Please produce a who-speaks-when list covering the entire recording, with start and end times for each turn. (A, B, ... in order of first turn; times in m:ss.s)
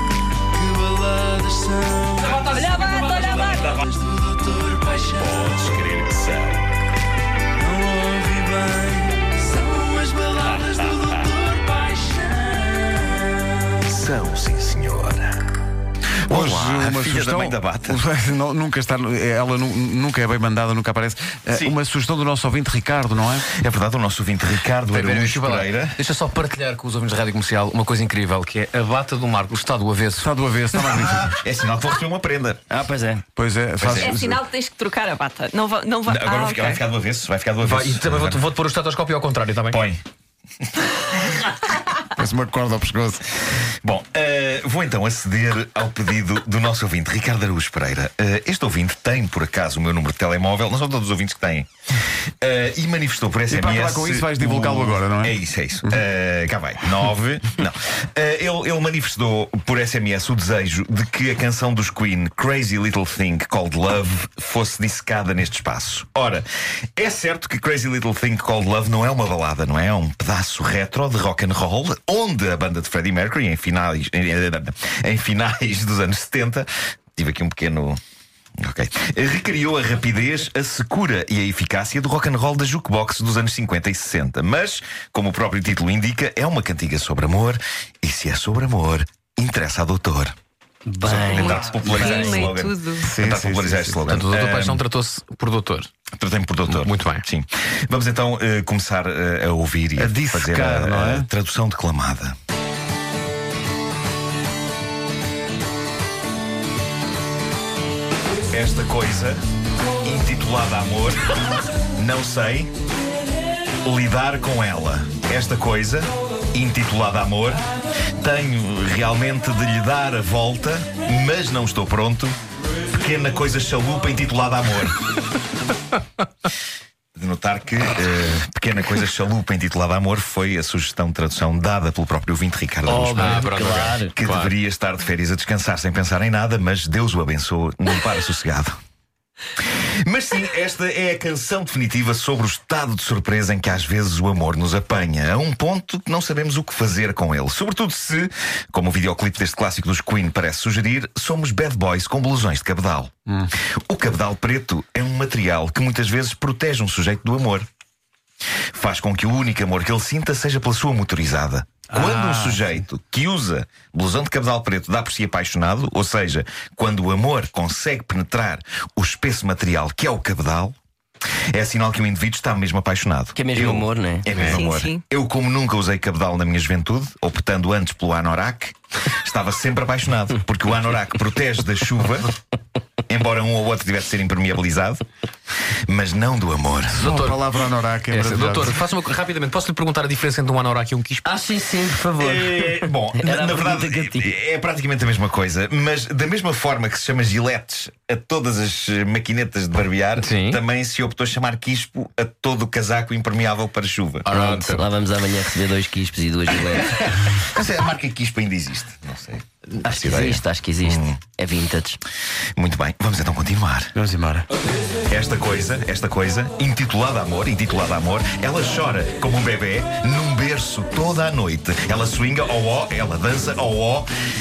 0:00.6-0:02.4 A
0:02.2-0:03.7 B
0:02.4-0:03.9 C
0:04.0-0:04.7 A
0:04.9-0:06.6 D
0:07.7-0:12.9 A
0:10.5-0:11.3 D
0:13.8-0:15.4 D
0:16.3-0:18.0 D
0:16.3-0:23.5 E
0:23.6-0:26.0 D
0:24.9-0:30.3 B
0:30.2-0:31.4 E
0:30.9-0:32.6 D
0:32.7-0:33.2 A
0:33.4-0:34.4 E
0:33.8-0:34.3 D
0:34.0-0:36.8 C
0:36.1-0:38.4 D
0:37.6-0:39.8 B
0:39.7-0:40.0 D
0:42.2-0:43.2 E
0:43.8-0:51.7 D
0:52.4-1:06.4 D
0:53.5-0:56.0 E
1:07.0-1:18.0 D
1:18.6-1:30.3 D
1:30.9-1:31.6 A
1:31.0-1:34.8 D
1:31.3-1:33.1 C
1:33.0-1:34.0 E
1:34.1-1:35.9 B
1:36.1-1:42.4 D
1:36.7-1:37.2 B
1:40.0-1:41.3 E
1:48.5-1:49.4 D
1:50.0-1:52.7 D
1:53.8-1:57.6 D
1:58.2-2:02.4 D
2:02.9-2:05.0 D
2:07.2-2:18.8 D
2:12.9-2:14.1 A
2:13.1-2:14.5 B
2:20.0-2:33.1 D
2:33.9-2:37.7 D
2:38.7-2:50.8 D
2:41.9-2:42.6 E
2:51.5-3:02.3 D
2:53.4-2:54.6 A
2:54.4-2:55.0 C
3:03.1-3:05.0 D
3:05.9-3:07.1 D
3:06.9-3:08.8 E
3:07.0-3:07.4 B
3:08.1-3:11.3 B
3:11.2-3:14.4 A
3:12.2-3:24.3 D
3:20.2-3:20.6 B
3:24.2-3:24.9 B
3:24.3-3:27.0 A
3:27.3-3:31.2 D
3:29.8-3:32.0 A
3:32.6-3:33.9 D
3:34.0-3:34.5 E
3:35.1-3:44.1 D